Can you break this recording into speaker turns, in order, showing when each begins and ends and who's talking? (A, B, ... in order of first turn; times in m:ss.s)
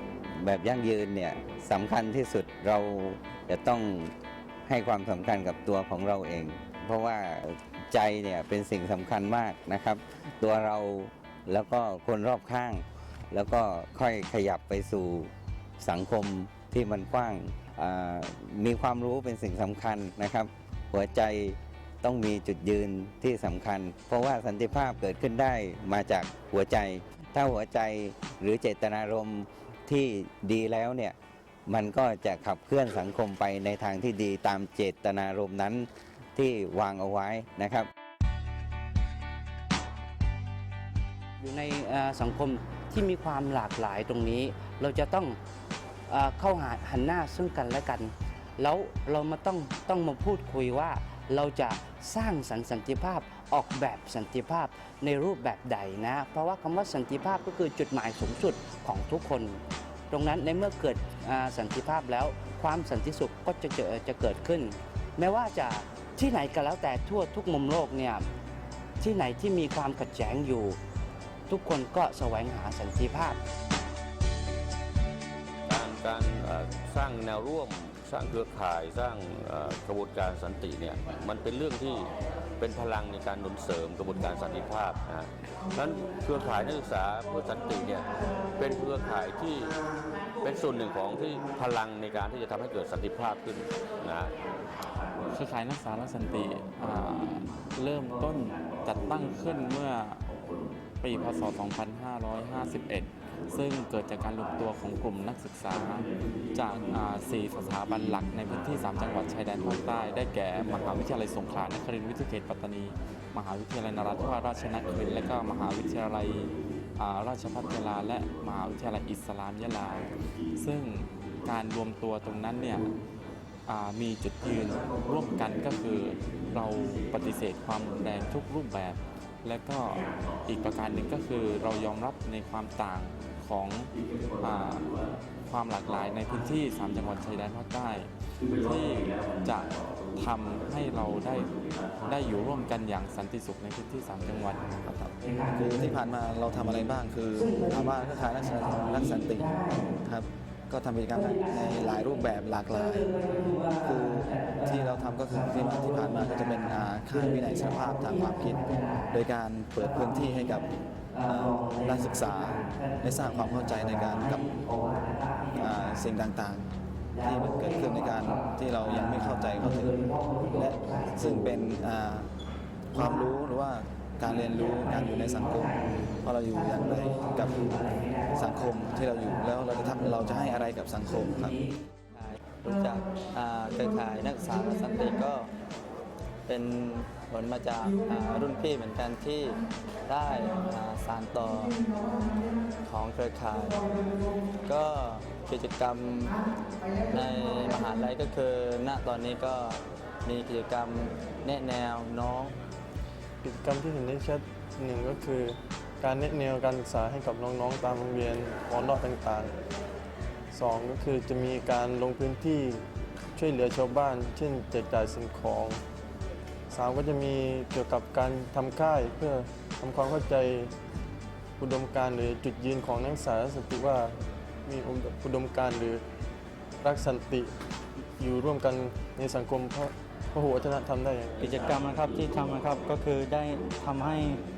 0:00.3-0:31.2 A
0:31.7-0:37.9 A
0:41.4-0:45.4 B
0:46.1-1:08.2 B
1:09.0-1:10.8 B
1:11.5-1:13.4 B
1:15.6-1:29.8 C
1:30.4-1:34.4 C
1:35.3-1:40.3 D
1:41.0-2:02.9 D
2:03.7-2:24.7 D
2:24.8-2:40.7 E
2:25.2-2:29.9 B
2:31.1-2:39.2 B
2:39.8-2:46.0 B
2:41.2-2:44.5 E
2:45.6-2:46.7 E
2:47.1-2:51.6 B
2:47.2-2:52.3 E
2:52.9-3:01.6 E
2:53.0-2:53.2 B
2:54.2-3:01.7 B
3:02.1-3:05.5 F
3:06.5-3:11.9 F
3:12.8-3:13.8 F
3:14.6-3:16.4 F
3:17.1-3:22.6 F
3:23.4-3:29.5 G
3:30.5-3:32.8 G
3:33.3-3:35.8 G
3:36.7-3:40.7 G
3:41.6-3:46.0 G
3:46.8-3:47.5 G
3:48.2-3:51.4 G
3:51.4-3:54.4 H